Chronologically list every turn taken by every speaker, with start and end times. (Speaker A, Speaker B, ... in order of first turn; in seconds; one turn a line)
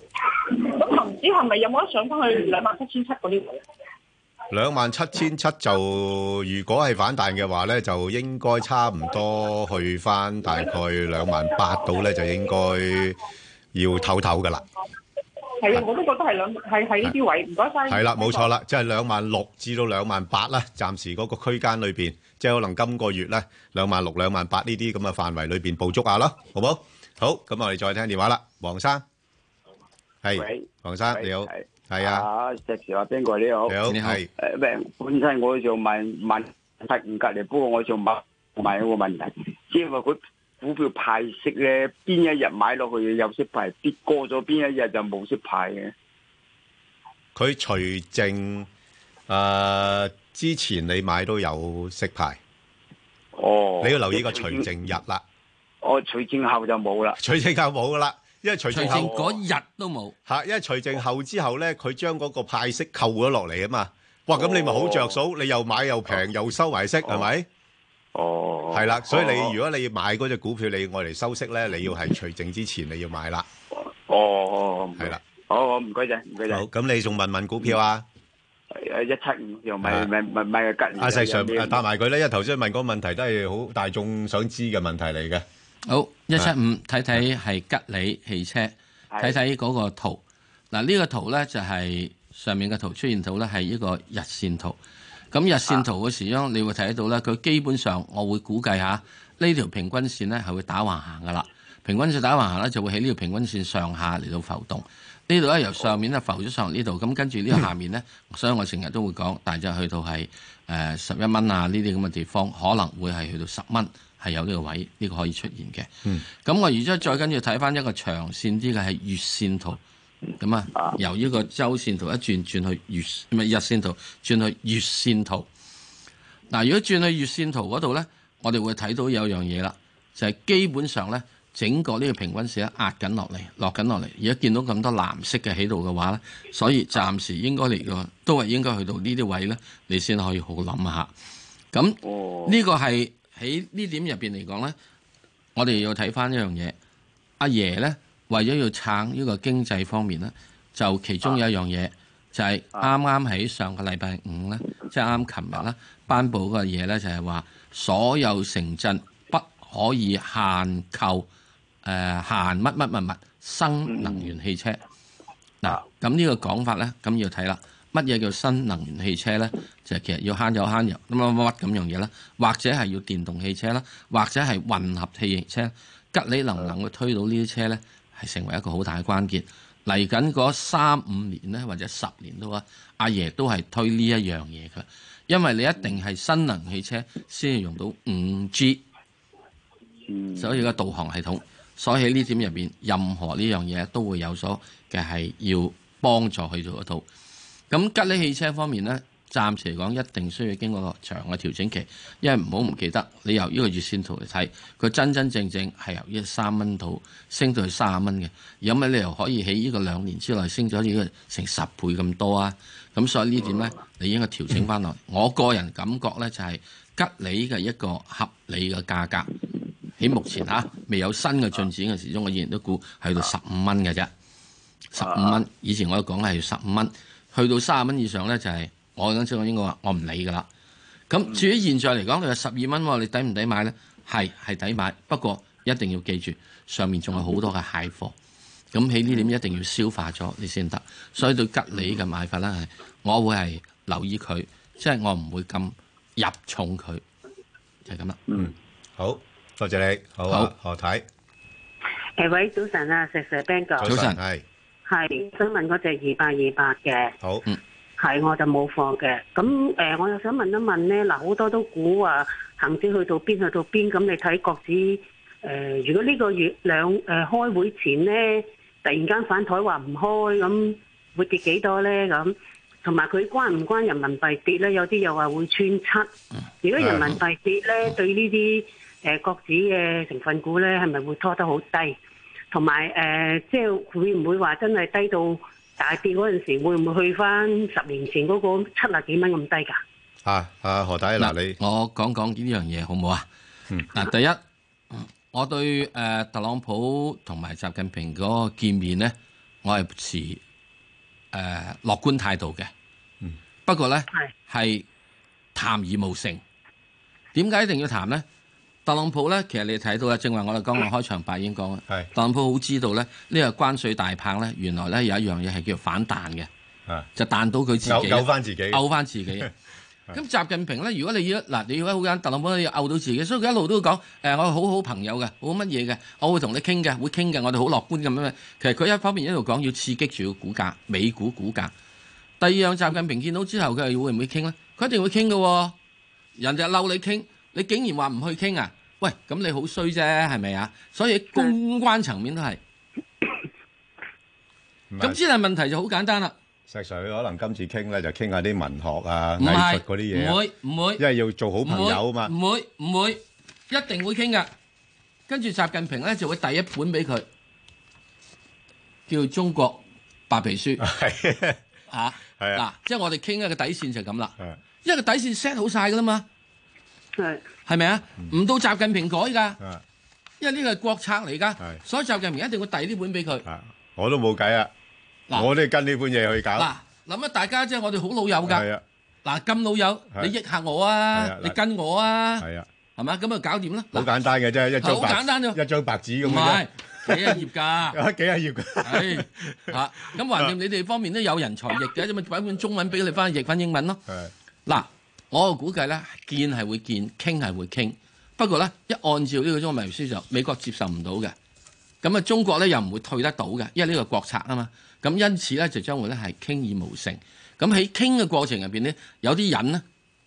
Speaker A: 0.5-3.6
Speaker B: 4.5-13.2
Speaker B: 13.7-14.6
Speaker A: 15.6-18.4
Speaker B: 17.9-29.0
Speaker B: 30.2-32.2
Speaker C: 30.3-33.8
Speaker B: 33.7-34.3
Speaker D: 33.9-34.2
Speaker C: 34.4-45.9
Speaker B: 47.3-48.7
Speaker B: 49.3-52.4
Speaker C: 53.4-54.7
Speaker B: 53.8-55.2
Speaker C: 55.8-57.2
Speaker B: 57.2-59.1
Speaker D: 58.7-60.1
Speaker C: 58.9-59.3
Speaker B: 60.3-67.5
Speaker C: 64.3-65.2
Speaker C: 68.1-69.5
Speaker B: 68.7-73.5
Speaker C: 73.7-76.6
Speaker B: 76.5-78.0
Speaker C: 78.7-81.8
Speaker B: 79.8-80.1
Speaker B: 81.0-85.4
Speaker D: 85.9-94.8
Speaker D: 95.3-115.9
Speaker D: 116.4-119.8
Speaker D: 120.4-125.5
Speaker D: 126.5-141.1
Speaker D: 141.7-144.7
Speaker C: 142.0-142.6
Speaker D: 145.6-146.7
Speaker D: 147.4-161.3
Speaker D: 161.8-164.8
Speaker D: 165.6-188.8
Speaker C: 190.1-190.4
Speaker D: 190.3-197.0
Speaker D: 197.7-219.3
Speaker D: 220.0-224.1
Speaker D: 224.9-230.5
Speaker D: 231.1-238.1
Speaker D: 238.7-247.0
Speaker D: 247.8-248.2
Speaker B: 248.3-251.0
Speaker E: 252.2-253.9
Speaker B: 253.8-254.4
Speaker D: 253.8-254.2
Speaker E: 254.9-257.1
Speaker B: 257.2-257.4
Speaker E: 258.0-276.1
Speaker E: 276.6-281.9
Speaker B: 276.8-277.2
Speaker E: 282.5-289.8
Speaker B: 290.2-291.6
Speaker D: 291.2-293.2
Speaker D: 293.9-294.4
Speaker D: 294.9-300.4
Speaker D: 301.3-302.7
Speaker D: 303.6-304.9
Speaker D: 305.5-306.4
Speaker D: 307.3-308.2
Speaker D: 308.8-316.5
Speaker D: 317.1-319.5
Speaker B: 317.8-318.8
Speaker D: 320.1-331.7
Speaker D: 332.4-335.7
Speaker D: 336.4-342.6
Speaker B: 344.9-345.2
Speaker D: 345.0-346.3
Speaker B: 346.7-350.4
Speaker D: 349.4-351.0
Speaker B: 351.0-352.3
Speaker D: 351.6-354.5
Speaker D: 355.3-357.2
Speaker D: 359.1-360.8
Speaker B: 360.8-361.6
Speaker D: 361.9-366.2
Speaker B: 362.4-362.6
Speaker E: 367.2-367.4
Speaker D: 367.6-369.6
Speaker D: 370.4-373.4
Speaker B: 373.4-374.7
Speaker B: 375.3-376.7
Speaker D: 376.6-378.7
Speaker B: 378.4-378.8
Speaker D: 379.2-384.1
Speaker B: 381.1-381.6
Speaker B: 382.4-382.7
Speaker B: 383.9-389.7
Speaker D: 384.8-385.6
Speaker D: 386.2-388.0
Speaker D: 388.8-394.0
Speaker D: 394.6-401.3
Speaker D: 402.0-409.8